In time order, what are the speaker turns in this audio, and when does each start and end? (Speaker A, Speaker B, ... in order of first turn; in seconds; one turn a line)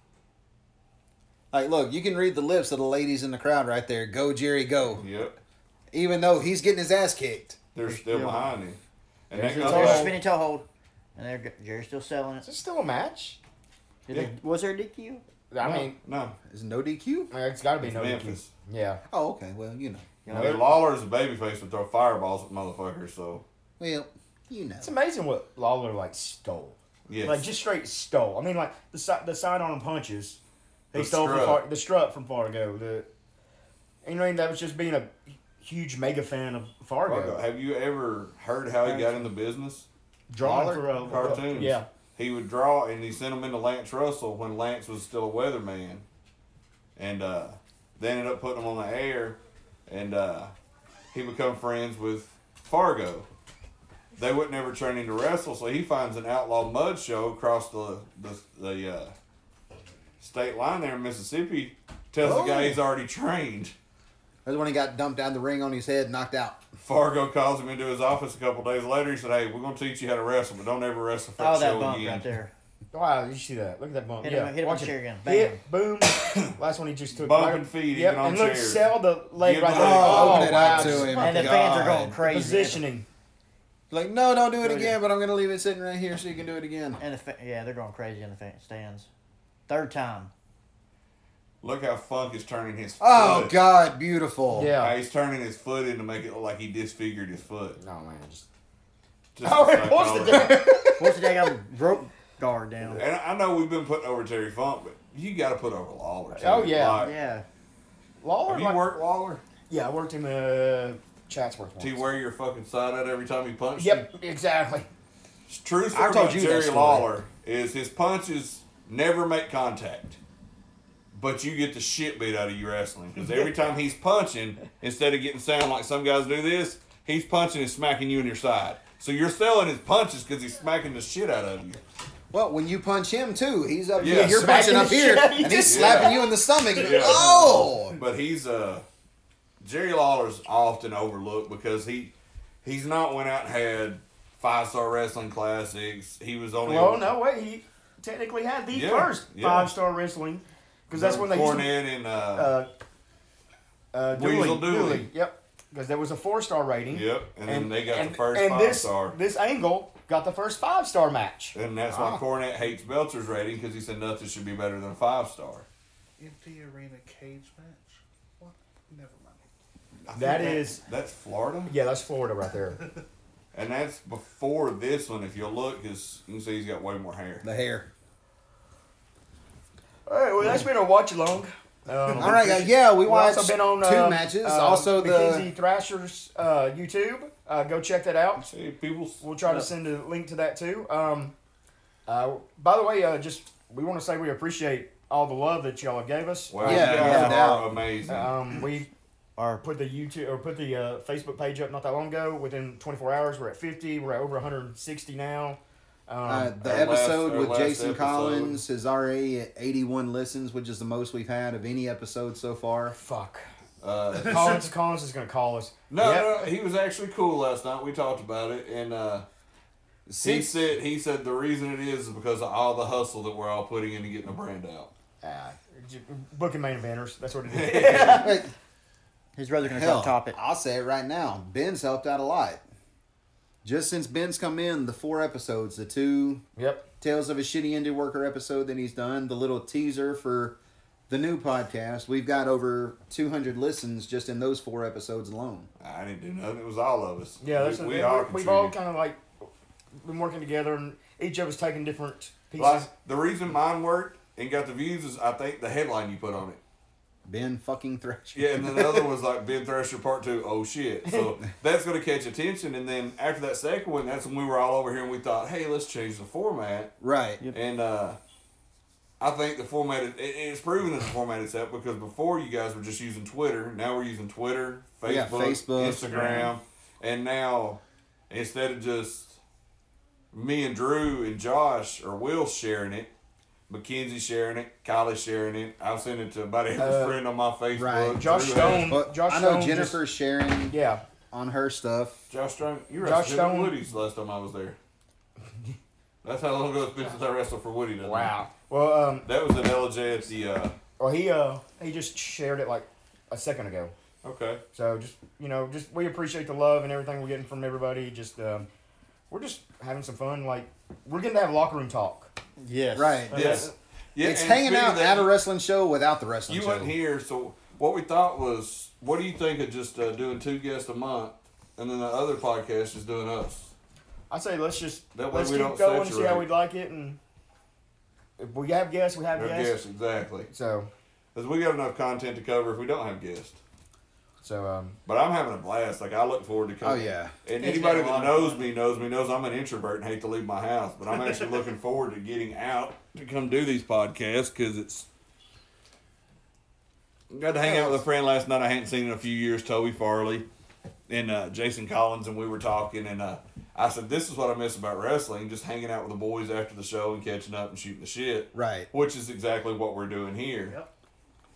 Speaker A: 1.5-5.0
Speaker B: 5.0-5.4
Speaker A: 5.9-7.6
Speaker B: 7.7-8.8
Speaker C: 7.9-8.5
Speaker B: 9.3-10.2
Speaker D: 9.3-10.2
Speaker C: 9.6-12.4
Speaker D: 12.4-13.4
Speaker C: 14.1-15.2
Speaker D: 15.5-16.0
Speaker B: 15.6-16.4
Speaker A: 16.5-17.3
Speaker D: 17.3-19.0
Speaker B: 17.8-18.5
Speaker A: 19.1-20.1
Speaker C: 20.3-20.6
Speaker D: 20.3-20.7
Speaker B: 20.3-23.4
Speaker A: 23.8-24.9
Speaker D: 24.8-30.4
Speaker B: 27.1-27.5
Speaker B: 30.9-31.6
Speaker D: 30.9-33.1
Speaker D: 34.0-37.4
Speaker B: 37.1-39.9
Speaker D: 38.8-39.3
Speaker D: 40.3-41.9
Speaker A: 40.4-41.4
Speaker B: 41.0-46.0
Speaker B: 47.0-50.5
Speaker B: 51.1-53.3
Speaker B: 54.2-59.1
Speaker B: 60.2-63.7
Speaker A: 62.2-62.8
Speaker A: 64.5-66.6
Speaker B: 66.8-72.3
Speaker C: 71.4-72.5
Speaker D: 72.9-81.5
Speaker C: 74.2-75.6
Speaker B: 77.1-78.9
Speaker B: 79.4-81.4
Speaker A: 79.7-82.2
Speaker C: 81.1-82.8
Speaker D: 82.2-83.1
Speaker A: 83.9-87.0
Speaker C: 84.7-84.9
Speaker C: 87.0-89.1
Speaker C: 89.7-90.3
Speaker B: 91.6-93.6
Speaker A: 93.0-94.7
Speaker D: 94.5-95.0
Speaker B: 94.8-97.8
Speaker D: 97.8-98.5
Speaker B: 99.3-100.8
Speaker D: 99.4-101.0
Speaker C: 101.0-103.0
Speaker B: 102.9-107.2
Speaker D: 106.4-107.0
Speaker C: 107.0-107.5
Speaker D: 108.2-108.8
Speaker B: 108.5-109.4
Speaker D: 109.7-112.0
Speaker B: 111.8-114.0
Speaker D: 113.8-114.9
Speaker B: 115.5-120.2
Speaker A: 115.9-117.1
Speaker B: 121.1-131.8
Speaker A: 132.3-138.0
Speaker B: 134.0-134.5
Speaker D: 134.0-136.1
Speaker B: 135.6-136.2
Speaker B: 136.8-138.9
Speaker B: 139.6-147.1
Speaker D: 146.6-151.7
Speaker B: 148.7-149.7
Speaker B: 150.9-152.5
Speaker D: 152.3-152.7
Speaker D: 153.9-161.6
Speaker B: 154.1-155.1
Speaker B: 156.9-159.2
Speaker B: 161.6-165.7
Speaker A: 161.9-162.2
Speaker E: 166.2-169.4
Speaker B: 170.1-171.7
Speaker D: 170.1-170.8
Speaker D: 171.7-172.8
Speaker B: 173.5-177.5
Speaker A: 177.4-177.9
Speaker D: 180.1-188.5
Speaker A: 182.2-185.5
Speaker B: 188.4-189.2
Speaker D: 189.2-191.3
Speaker D: 192.1-197.4
Speaker B: 196.5-198.3
Speaker A: 196.6-197.7
Speaker C: 196.7-197.4
Speaker D: 198.1-198.9
Speaker C: 199.4-199.6
Speaker D: 199.6-206.9
Speaker A: 206.2-213.0
Speaker B: 206.6-208.6
Speaker D: 212.9-213.5
Speaker B: 213.8-214.7
Speaker E: 214.1-214.6
Speaker D: 214.2-216.5
Speaker B: 215.9-219.3
Speaker A: 220.1-220.7
Speaker B: 220.2-224.9
Speaker D: 225.2-228.4
Speaker B: 227.5-228.3
Speaker A: 227.9-228.5
Speaker C: 229.4-230.4
Speaker A: 229.7-232.6
Speaker A: 233.6-236.4
Speaker D: 236.6-236.9
Speaker A: 237.0-240.6
Speaker A: 241.1-245.7
Speaker B: 245.8-248.8
Speaker D: 247.4-252.9
Speaker B: 252.6-256.6
Speaker A: 257.3-259.1
Speaker B: 258.4-266.9
Speaker D: 261.1-261.3
Speaker A: 267.0-267.4
Speaker B: 267.5-268.2
Speaker B: 269.2-279.4
Speaker A: 275.0-276.2
Speaker E: 276.2-276.5
Speaker B: 280.3-283.1
Speaker B: 283.7-288.9
Speaker D: 286.8-287.2
Speaker A: 287.7-290.8
Speaker D: 288.2-290.0
Speaker D: 290.7-291.0
Speaker A: 291.3-292.2
Speaker B: 292.3-294.8
Speaker D: 293.0-293.8
Speaker B: 296.2-298.3
Speaker D: 298.0-299.3
Speaker B: 299.2-300.8
Speaker D: 301.0-303.9
Speaker B: 304.2-304.6
Speaker D: 304.7-308.7
Speaker D: 309.3-312.3
Speaker C: 312.6-313.7
Speaker A: 312.9-313.7
Speaker B: 313.3-315.3
Speaker D: 313.3-313.7
Speaker A: 314.2-316.9
Speaker B: 316.5-323.7
Speaker D: 324.3-327.2
Speaker B: 325.1-326.5
Speaker D: 328.4-329.8
Speaker B: 329.3-330.5
Speaker D: 330.5-330.9
Speaker B: 331.4-333.6
Speaker D: 334.4-335.0
Speaker B: 335.1-345.1
Speaker A: 336.8-337.3
Speaker C: 337.6-338.6
Speaker E: 341.1-341.4
Speaker B: 347.3-350.4
Speaker B: 351.1-360.8
Speaker A: 358.5-358.9